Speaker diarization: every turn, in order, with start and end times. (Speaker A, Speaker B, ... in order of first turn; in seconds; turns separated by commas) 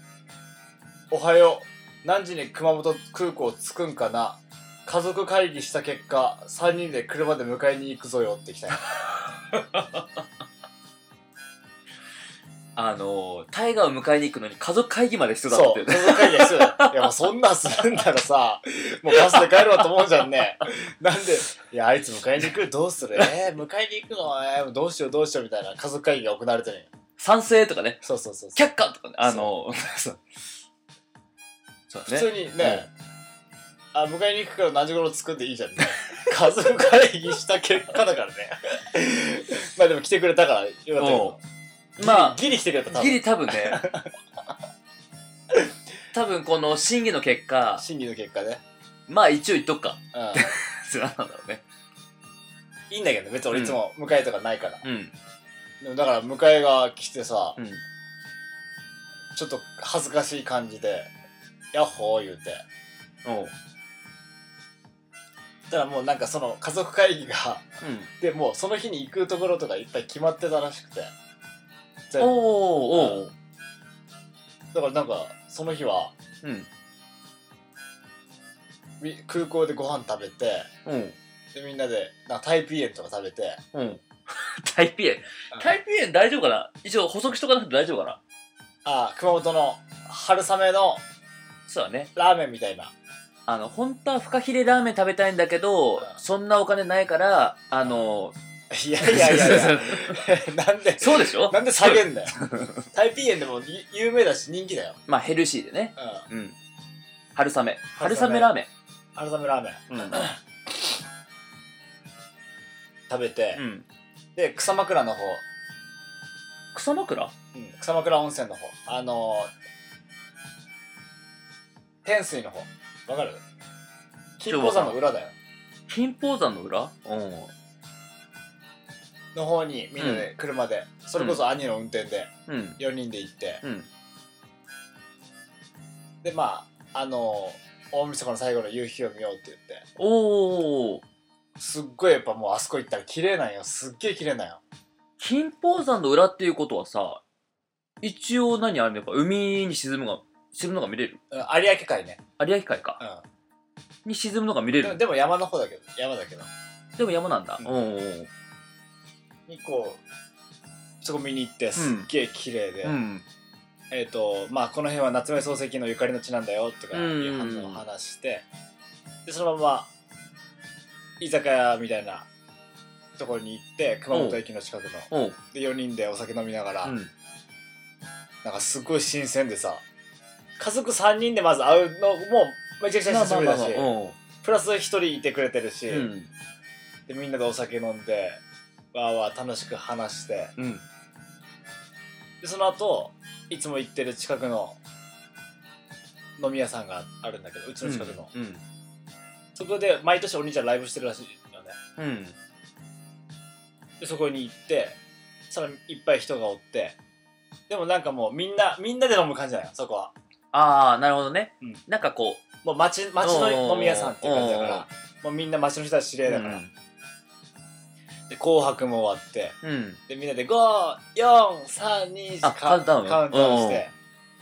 Speaker A: 1.1-8.8, Speaker B: 9.5-10.1, Speaker B: 12.8-17.1, Speaker A: 15.5-26.9, Speaker B: 27.2-28.0, Speaker A: 28.0-28.6, Speaker B: 28.6-30.2, Speaker A: 29.2-29.5, Speaker B: 31.9-32.9, Speaker A: 32.1-32.9, Speaker A: 33.9-41.4, Speaker B: 41.0-41.4, Speaker B: 42.0-43.9, Speaker A: 42.0-44.1, Speaker B: 46.1-47.9, Speaker A: 47.8-48.6, Speaker B: 49.1-51.6, Speaker A: 50.1-50.5, Speaker A: 52.9-54.8, Speaker B: 53.5-53.8, Speaker B: 54.8-55.1, Speaker A: 55.8-57.6, Speaker B: 57.6-57.8, Speaker A: 59.3-61.1, Speaker A: 61.7-62.6, Speaker B: 63.2-63.5, Speaker A: 65.7-67.7, Speaker B: 67.8-68.1, Speaker A: 68.2-71.1, Speaker A: 72.1-72.4, Speaker B: 72.2-73.3, Speaker A: 72.9-73.2, Speaker A: 74.7-76.2, Speaker B: 76.4-76.7, Speaker A: 79.0-80.7, Speaker B: 80.8-81.2, Speaker A: 81.5-83.6, Speaker B: 83.7-88.2, Speaker A: 88.8-91.0, Speaker B: 91.7-92.1, Speaker A: 92.2-92.9, Speaker B: 93.5-98.3, Speaker A: 98.7-102.4, Speaker B: 99.0-100.3, Speaker B: 101.0-102.9, Speaker A: 102.9-105.0, Speaker B: 105.1-106.6, Speaker A: 106.0-106.3, Speaker B: 107.3-108.7, Speaker A: 108.0-108.5, Speaker A: 109.2-111.0, Speaker B: 109.9-110.3, Speaker A: 113.1-113.6, Speaker B: 113.6-113.9, Speaker A: 114.3-115.4, Speaker B: 116.7-117.3, Speaker A: 117.5-119.5, Speaker A: 122.0-123.4, Speaker A: 124.4-125.3, Speaker B: 124.5-125.0, Speaker B: 125.9-127.5, Speaker A: 129.3-133.6, Speaker B: 130.0-130.3, Speaker B: 131.2-131.4, Speaker B: 132.5-132.8, Speaker B: 133.6-133.9, Speaker A: 136.2-139.8, Speaker B: 140.0-141.0, Speaker A: 141.6-144.6, Speaker B: 145.2-147.2, Speaker B: 148.0-151.2, Speaker A: 151.3-152.2, Speaker B: 152.4-153.0, Speaker B: 154.1-155.0, Speaker A: 154.8-156.5, Speaker B: 157.0-158.3, Speaker A: 159.5-160.0, Speaker A: 161.0-163.0, Speaker B: 161.8-162.1, Speaker B: 162.8-163.2, Speaker A: 163.9-168.5, Speaker B: 166.9-167.8, Speaker A: 169.2-169.9, Speaker A: 171.2-172.3, Speaker A: 173.2-176.9, Speaker B: 174.1-174.4, Speaker B: 175.1-175.4, Speaker B: 176.8-177.1, Speaker A: 178.4-179.8, Speaker A: 180.6-183.9, Speaker B: 183.1-184.2, Speaker A: 184.4-186.1, Speaker B: 185.9-186.3, Speaker A: 187.1-188.4, Speaker A: 188.9-190.6, Speaker B: 190.6-190.8, Speaker A: 192.4-194.8, Speaker A: 196.4-198.3, Speaker B: 197.8-198.6, Speaker A: 199.6-201.8, Speaker B: 202.0-202.4, Speaker A: 204.0-207.0, Speaker A: 207.7-210.1, Speaker B: 210.5-212.4, Speaker A: 212.6-216.6, Speaker B: 213.2-214.9, Speaker B: 216.3-216.7, Speaker A: 218.3-219.6, Speaker B: 219.6-220.0, Speaker A: 220.1-223.9, Speaker B: 222.4-223.8